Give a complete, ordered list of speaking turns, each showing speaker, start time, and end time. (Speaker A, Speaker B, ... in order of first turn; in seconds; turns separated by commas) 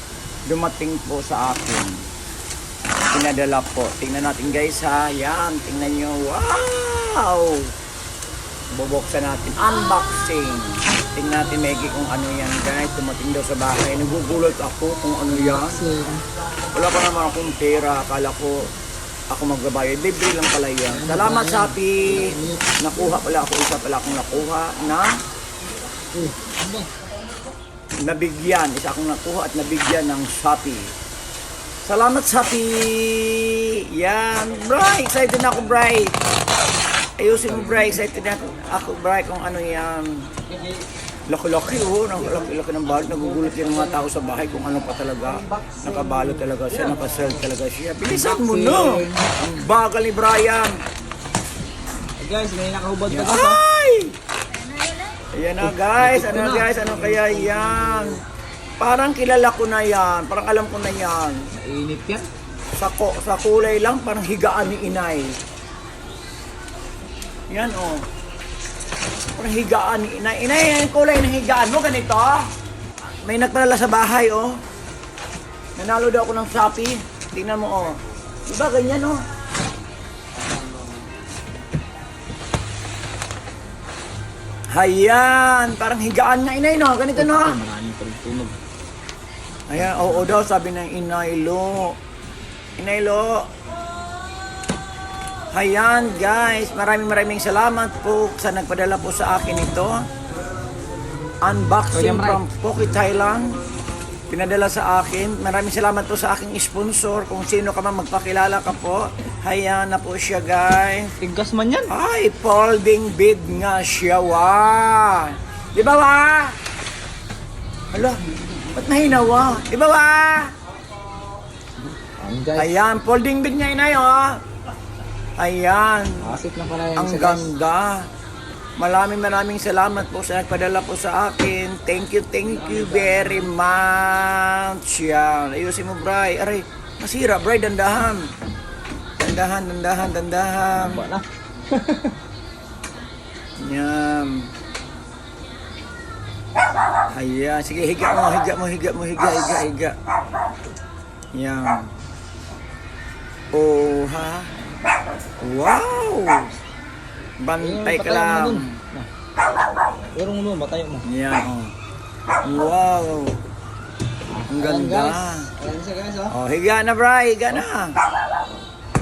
Speaker A: 0.5-2.0, Speaker A: 3.1-7.7, Speaker A: 8.7-15.8, Speaker B: 15.3-16.2, Speaker A: 16.7-18.6, Speaker A: 19.3-25.1, Speaker B: 20.9-22.8, Speaker B: 26.1-26.9, Speaker A: 28.0-30.9, Speaker A: 31.9-36.1, Speaker A: 37.2-40.2, Speaker B: 37.5-38.0, Speaker A: 41.3-50.7, Speaker B: 42.9-44.0, Speaker B: 45.6-46.2, Speaker B: 48.1-49.3, Speaker B: 52.2-53.6, Speaker A: 53.1-54.1, Speaker A: 55.3-58.2, Speaker B: 55.6-58.1, Speaker A: 58.8-61.4, Speaker B: 61.5-62.3, Speaker A: 62.7-65.3, Speaker A: 67.5-68.0, Speaker A: 69.4-72.5, Speaker A: 73.2-74.6, Speaker A: 75.8-79.2, Speaker A: 84.7-87.6, Speaker B: 87.1-88.6, Speaker A: 89.7-92.0, Speaker A: 92.8-93.5, Speaker A: 95.5-100.0, Speaker A: 101.4-103.5, Speaker B: 101.9-102.4, Speaker A: 104.3-111.1, Speaker B: 111.2-111.9, Speaker A: 111.9-116.6, Speaker A: 117.9-118.2, Speaker A: 118.7-120.5, Speaker B: 122.2-122.7, Speaker A: 122.5-124.4, Speaker A: 125.4-126.2, Speaker B: 126.2-127.5, Speaker A: 127.0-128.1, Speaker A: 128.8-138.3, Speaker B: 132.4-133.5, Speaker A: 139.2-141.0, Speaker B: 140.7-142.1, Speaker A: 143.6-144.4, Speaker A: 147.1-149.9, Speaker A: 151.3-151.9, Speaker A: 153.5-154.5, Speaker A: 155.4-156.5, Speaker A: 157.4-158.8, Speaker B: 157.6-159.1, Speaker B: 160.1-161.1, Speaker A: 161.0-161.7, Speaker A: 162.4-163.3, Speaker B: 164.3-166.3, Speaker A: 164.5-165.5, Speaker A: 166.3-167.9